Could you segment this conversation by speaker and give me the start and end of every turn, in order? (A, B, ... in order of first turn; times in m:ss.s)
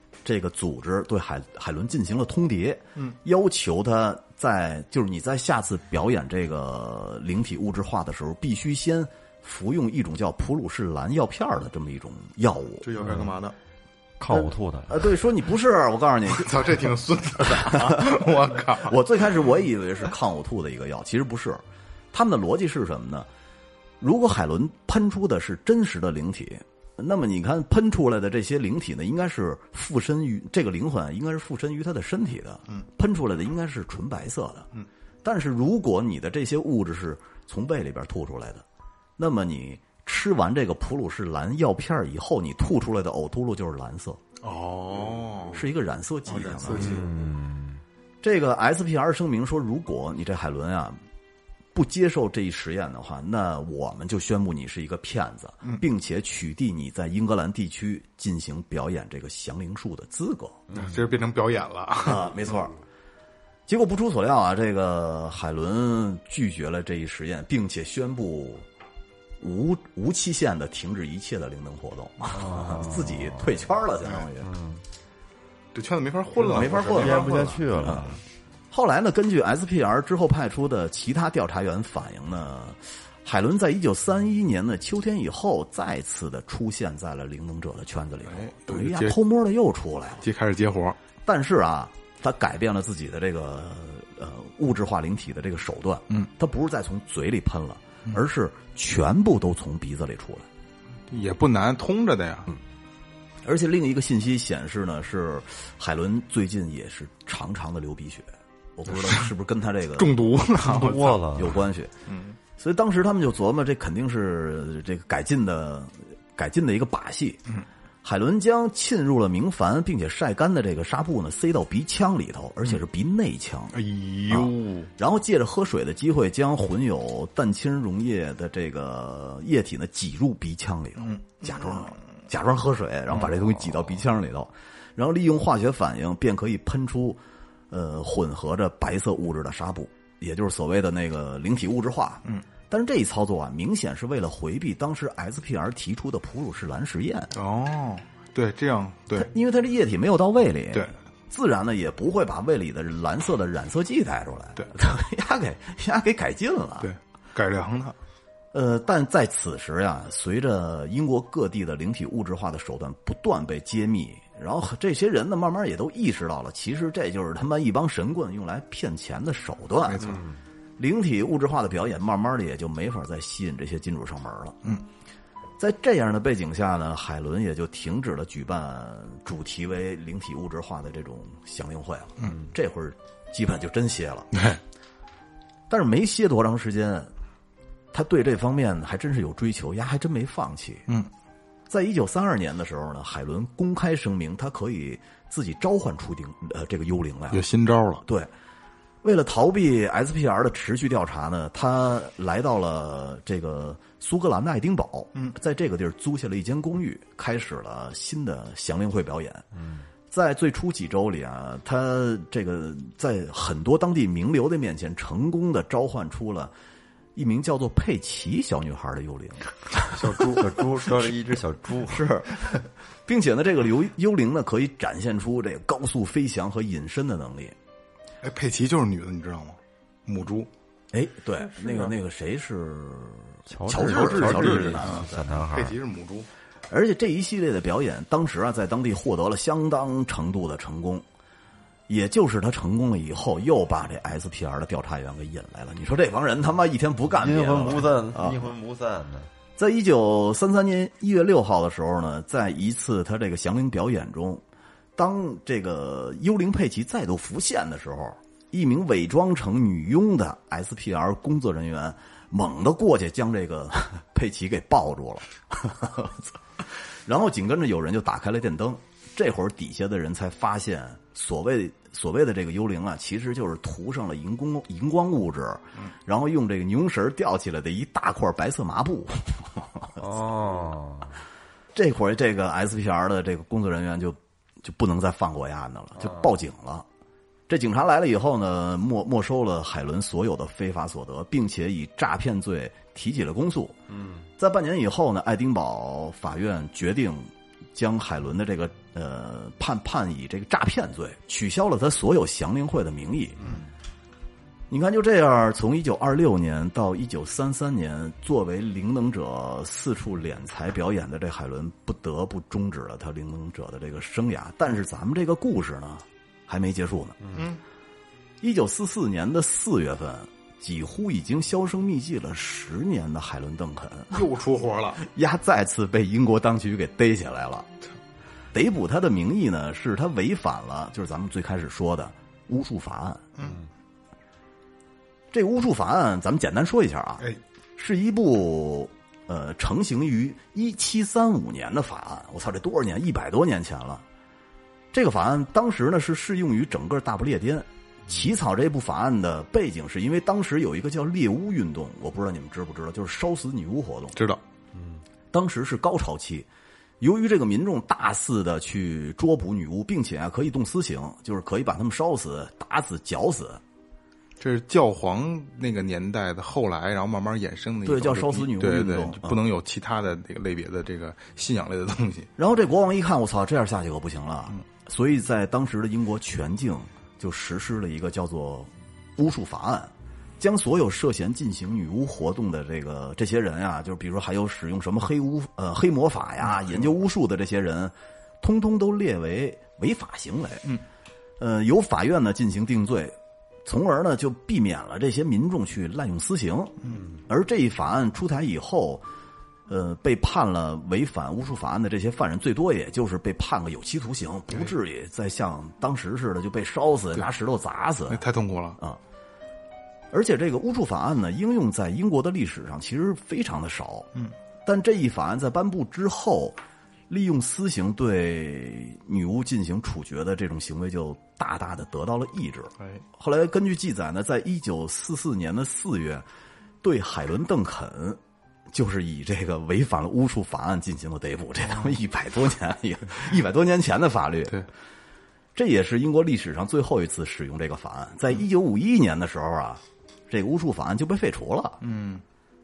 0:00.2-0:12.9 A
0:12.8-0:13.5 B
0:13.0-0:13.3 C
0:14.2-0:15.0 C
0:14.3-0:16.7 A
0:16.3-0:19.0 B
0:17.4-0:18.2 A
0:18.7-0:23.3 A
0:24.0-0:34.7 A
0:35.2-0:38.6 A
0:39.2-0:44.2 A
0:44.4-0:45.6 B
0:45.4-0:47.1 A
0:46.3-0:47.1 B
0:46.7-0:47.8 C
0:48.2-0:51.0 A
0:51.7-1:00.7 A
1:00.7-1:02.3 B
1:02.0-1:02.8 A
1:03.7-1:08.6 A
1:09.4-1:14.5 A
1:12.3-1:13.4 C
1:14.4-1:14.8 C
1:15.7-1:17.5 B
1:16.4-1:18.2 A
1:16.5-1:18.2 C
1:18.7-1:30.2 A
1:28.3-1:29.2 B
1:30.2-1:31.0 B
1:31.2-1:40.5 A
1:41.1-1:42.5 B
1:43.4-1:50.2 A
1:49.0-1:49.3 B
1:50.0-1:51.2 B
1:50.6-1:51.6 C
1:51.0-1:51.9 A
1:52.1-1:52.4 B
1:52.6-1:57.4 A
1:58.0-2:27.3 A
2:03.7-2:04.9 B
2:11.0-2:11.8 B
2:27.3-2:29.3 B
2:29.2-2:36.9 A
2:36.8-2:37.9 B
2:38.5-2:50.2 A
2:49.9-2:50.2 B
2:50.8-2:54.6 A
2:55.6-3:04.3 A
3:04.3-3:04.6 B
3:05.7-3:07.1 A
3:07.9-3:10.9 A
3:11.7-3:17.4 A
3:17.3-3:18.0 B
3:18.0-3:18.3 A
3:19.0-3:29.4 A
3:29.6-3:29.8 C
3:30.1-3:36.5 A
3:37.1-3:39.5 A
3:39.9-3:40.4 B
3:40.3-3:42.1 C
3:41.8-3:47.6 A
3:48.2-3:50.5 B
3:50.9-3:55.2 A
3:53.5-3:55.7 C
3:53.8-3:56.3 B
3:56.7-4:01.0 A
4:01.9-4:08.5 A
4:07.1-4:09.3 C
4:09.6-4:14.4 A
4:15.0-4:40.0 A
4:40.0-4:41.2 C
4:41.7-4:46.8 A
4:46.0-4:46.3 C
4:47.5-4:53.8 A
4:53.9-4:54.2 C
4:54.4-5:03.4 A
5:04.7-5:17.2 A
5:17.3-5:17.6 B
5:18.4-5:24.2 A
5:24.1-5:25.0 B
5:25.0-5:27.7 A
5:28.5-5:33.2 A
5:35.3-5:44.0 A
5:44.9-5:54.2 A
5:55.3-5:56.5 A
5:57.0-6:03.6 A
6:04.4-6:12.3 B
6:07.8-6:09.4 A
6:12.4-6:30.7 A
6:31.4-6:39.0 A
6:39.7-6:48.2 A
6:48.1-6:48.8 B
6:50.1-6:54.1 A
6:54.6-7:06.2 A
7:06.8-7:14.6 A
7:15.5-7:21.8 A
7:21.8-7:22.2 B